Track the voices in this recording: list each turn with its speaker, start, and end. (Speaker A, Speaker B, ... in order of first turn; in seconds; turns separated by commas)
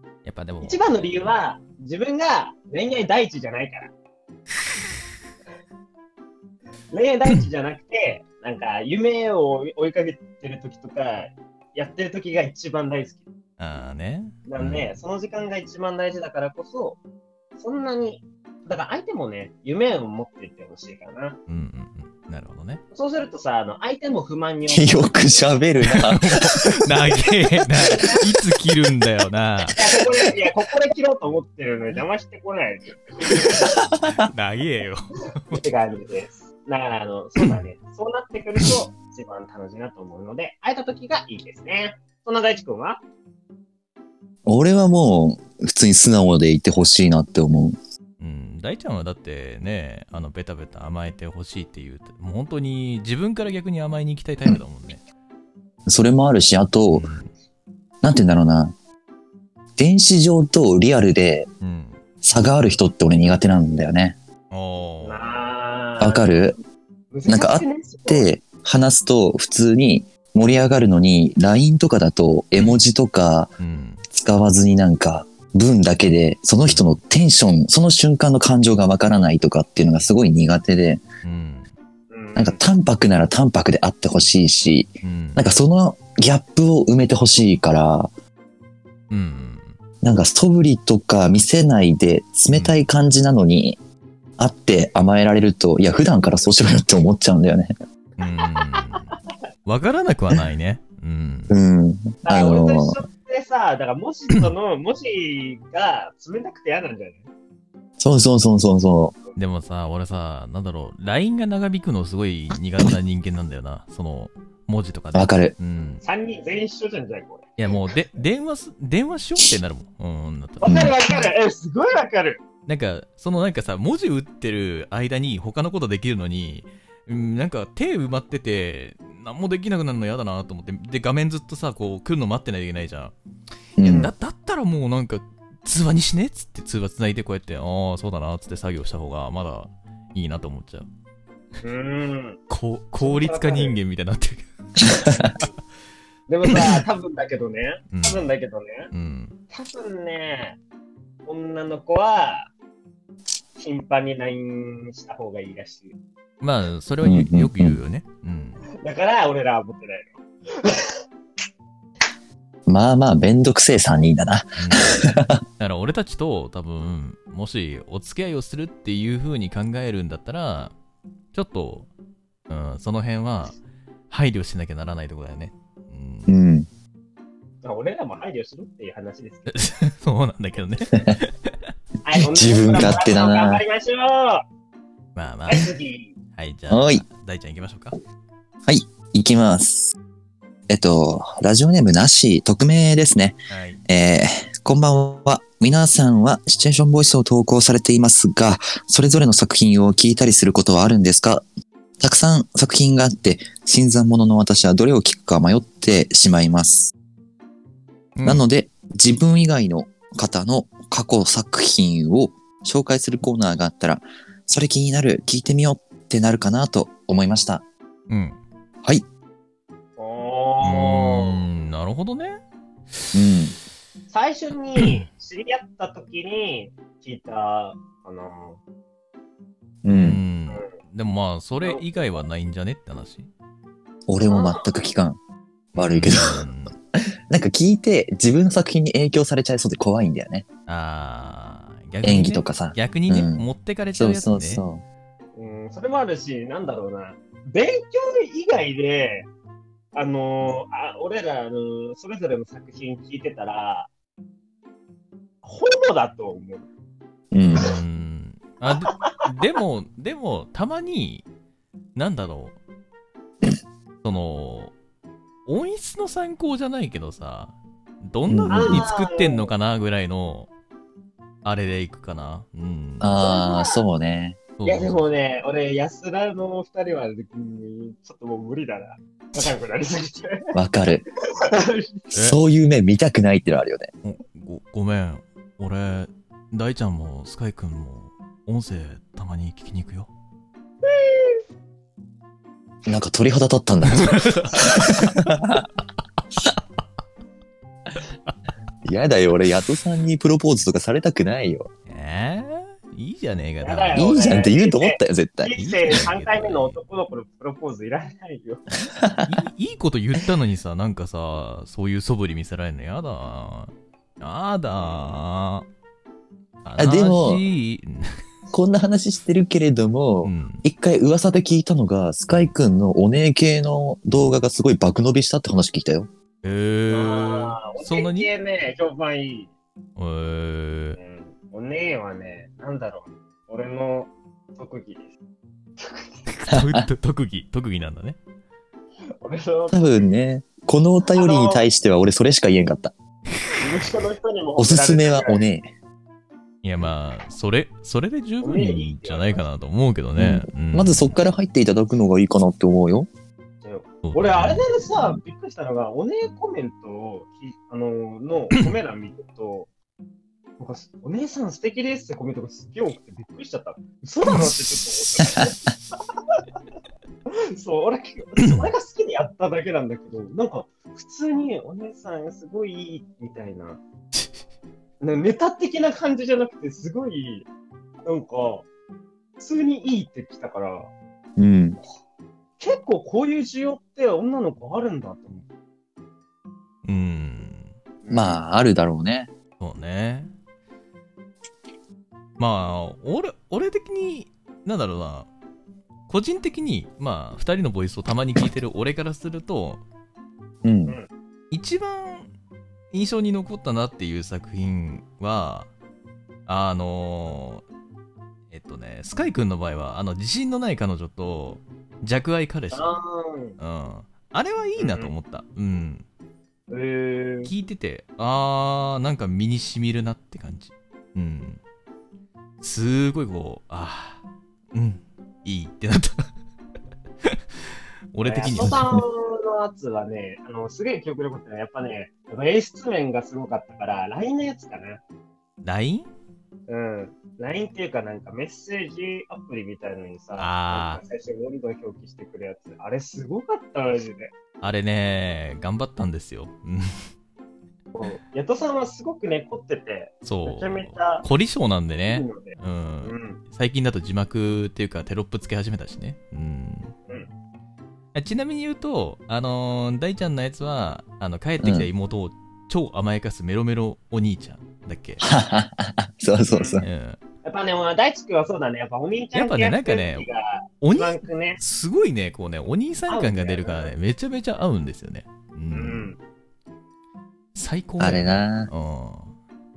Speaker A: 0.2-1.1, Speaker B: 0.6-3.9, Speaker B: 6.9-13.3, Speaker A: 13.6-14.9, Speaker B: 14.5-17.0, Speaker B: 17.6-21.4, Speaker A: 21.5-22.8, Speaker B: 22.9-25.6, Speaker C: 24.7-26.9, Speaker A: 25.8-29.8, Speaker B: 27.9-28.2, Speaker B: 29.7-33.8, Speaker C: 33.9-34.3, Speaker A: 34.1-35.6, Speaker B: 35.5-43.0, Speaker C: 44.5-47.8, Speaker A: 48.2-55.0, Speaker C: 55.9-57.1, Speaker A: 56.9-57.3, Speaker C: 58.0-58.7, Speaker C: 59.8-61.5, Speaker A: 61.6-62.0, Speaker C: 62.2-64.2, Speaker A: 64.5-65.4, Speaker B: 65.0-66.4, Speaker C: 66.0-66.6, Speaker B: 67.1-68.3, Speaker C: 67.3-73.5, Speaker A: 73.6-74.0, Speaker C: 74.1-81.0, Speaker A: 76.7-77.0, Speaker A: 81.2-81.7, Speaker B: 82.1-82.6, Speaker C: 82.4-88.1, Speaker A: 85.0-85.5, Speaker A: 89.1-89.8, Speaker C: 90.0-93.8, Speaker A: 92.5-92.8, Speaker C: 94.4-97.7, Speaker A: 98.2-101.5, Speaker B: 98.6-98.8, Speaker C: 101.5-103.0, Speaker B: 102.2-107.3, Speaker C: 108.0-109.2, Speaker A: 109.4-116.0, Speaker C: 115.1-115.5, Speaker B: 116.0-117.5, Speaker A: 117.6-120.9, Speaker B: 120.6-122.4, Speaker C: 120.7-120.9, Speaker A: 122.7-133.1, Speaker C: 133.8-134.1, Speaker A: 133.8-140.9, Speaker B: 141.6-142.4, Speaker A: 142.5-145.2, Speaker B: 143.0-143.8, Speaker C: 144.9-145.3, Speaker B: 146.3-148.9, Speaker A: 146.5-146.8, Speaker A: 147.9-148.3, Speaker A: 148.9-149.4, Speaker B: 149.5-150.6, Speaker B: 151.3-152.5, Speaker B: 153.6-156.0, Speaker A: 156.4-158.6, Speaker C: 157.0-157.8, Speaker B: 158.8-160.9, Speaker C: 162.7-165.4, Speaker A: 164.6-170.7, Speaker A: 171.3-171.9, Speaker A: 172.5-173.6, Speaker A: 174.1-176.3, Speaker C: 176.3-176.7, Speaker B: 177.6-179.7, Speaker A: 179.5-181.6, Speaker B: 182.0-184.4, Speaker C: 182.2-183.6, Speaker A: 185.2-185.7, Speaker B: 185.5-186.2, Speaker A: 186.4-188.0, Speaker C: 186.7-187.0, Speaker C: 188.7-189.9, Speaker C: 190.7-201.4, Speaker A: 193.5-193.8, Speaker C: 202.0-206.9, Speaker A: 208.2-208.4, Speaker C: 208.2-217.6, Speaker A: 218.1-218.4, Speaker B: 220.0-221.4, Speaker A: 220.6-222.4, Speaker C: 223.1-223.6, Speaker B: 224.1-228.6, Speaker A: 224.8-225.0, Speaker C: 229.8-230.2, Speaker A: 229.9-233.3, Speaker C: 234.1-235.2, Speaker B: 234.3-234.7, Speaker C: 235.7-236.4, Speaker A: 235.8-236.8, Speaker C: 237.0-240.5, Speaker A: 240.7-244.6, Speaker C: 242.0-244.8, Speaker B: 245.3-249.3, Speaker B: 249.9-253.9, Speaker B: 255.4-256.7, Speaker C: 257.3-257.7, Speaker A: 257.5-261.2, Speaker B: 258.7-259.2, Speaker A: 261.9-262.6, Speaker A: 264.0-264.7, Speaker A: 265.5-270.5, Speaker C: 268.3-268.9, Speaker B: 268.5-269.5, Speaker A: 271.4-273.2, Speaker C: 273.0-274.4, Speaker B: 273.1-273.9, Speaker A: 274.6-275.1, Speaker B: 274.6-280.5, Speaker C: 280.5-281.1, Speaker B: 281.4-282.1, Speaker C: 282.1-283.9, Speaker A: 284.0-290.1, Speaker B: 290.9-291.4, Speaker C: 292.9-295.7, Speaker A: 293.9-295.3, Speaker C: 298.9-301.7, Speaker A: 301.9-304.4, Speaker B: 303.6-308.7, Speaker C: 303.9-305.6, Speaker A: 305.6-306.8, Speaker C: 308.9-309.4, Speaker A: 309.3-315.7, Speaker B: 314.8-315.2, Speaker A: 316.6-318.2, Speaker C: 316.8-317.4, Speaker C: 318.5-326.1, Speaker A: 320.2-320.6, Speaker A: 326.4-328.3, Speaker B: 326.9-329.5, Speaker A: 330.0-331.0, Speaker B: 331.0-335.1, Speaker B: 335.8-336.3, Speaker A: 336.3-338.2, Speaker C: 336.5-336.9, Speaker B: 339.2-340.1, Speaker C: 339.7-342.9, Speaker B: 341.1-341.6, Speaker B: 343.6-345.4, Speaker C: 344.6-345.7, Speaker A: 346.6-351.2, Speaker B: 348.4-349.5, Speaker C: 350.2-353.1, Speaker B: 353.6-359.7, Speaker A: 354.0-354.7, Speaker B: 360.6-365.7, Speaker B: 367.3-373.8, Speaker A: 368.4-368.7, Speaker B: 375.0-377.5, Speaker B: 378.1-378.7, Speaker B: 379.4-380.9, Speaker C: 381.4-381.8, Speaker B: 382.6-385.5, Speaker A: 386.9-387.7, Speaker B: 388.0-388.4, Speaker C: 388.1-389.3, Speaker A: 389.6-390.3, Speaker A: 392.4-395.3, Speaker A: 396.1-399.8, Speaker C: 400.6-401.0, Speaker A: 401.5-402.3, Speaker A: 402.9-405.7, Speaker A: 406.5-407.6, Speaker A: 408.5-412.9, Speaker B: 412.7-413.6, Speaker A: 413.6-416.1, Speaker B: 414.8-415.1, Speaker B: 416.7-417.5, Speaker A: 417.5-421.6, Speaker A: 422.6-424.2, Speaker A: 424.7-426.3, Speaker A: 428.1-428.8, Speaker B: 428.2-435.0, Speaker C: 428.6-429.0, Speaker A: 435.6-436.1, Speaker B: 436.7-444.3, Speaker A: 440.4-441.0, Speaker A: 444.6-447.1, Speaker B: 447.9-451.2, Speaker A: 450.2-456.9, Speaker B: 452.1-453.4, Speaker A: 458.1-465.2, Speaker C: 461.6-461.9, Speaker C: 465.2-466.9, Speaker B: 466.5-466.8, Speaker A: 466.8-467.2, Speaker B: 467.4-471.6, Speaker A: 469.3-470.3, Speaker A: 470.8-476.1, Speaker B: 473.1-473.9, Speaker B: 475.7-476.2, Speaker A: 477.6-479.4, Speaker C: 478.0-478.7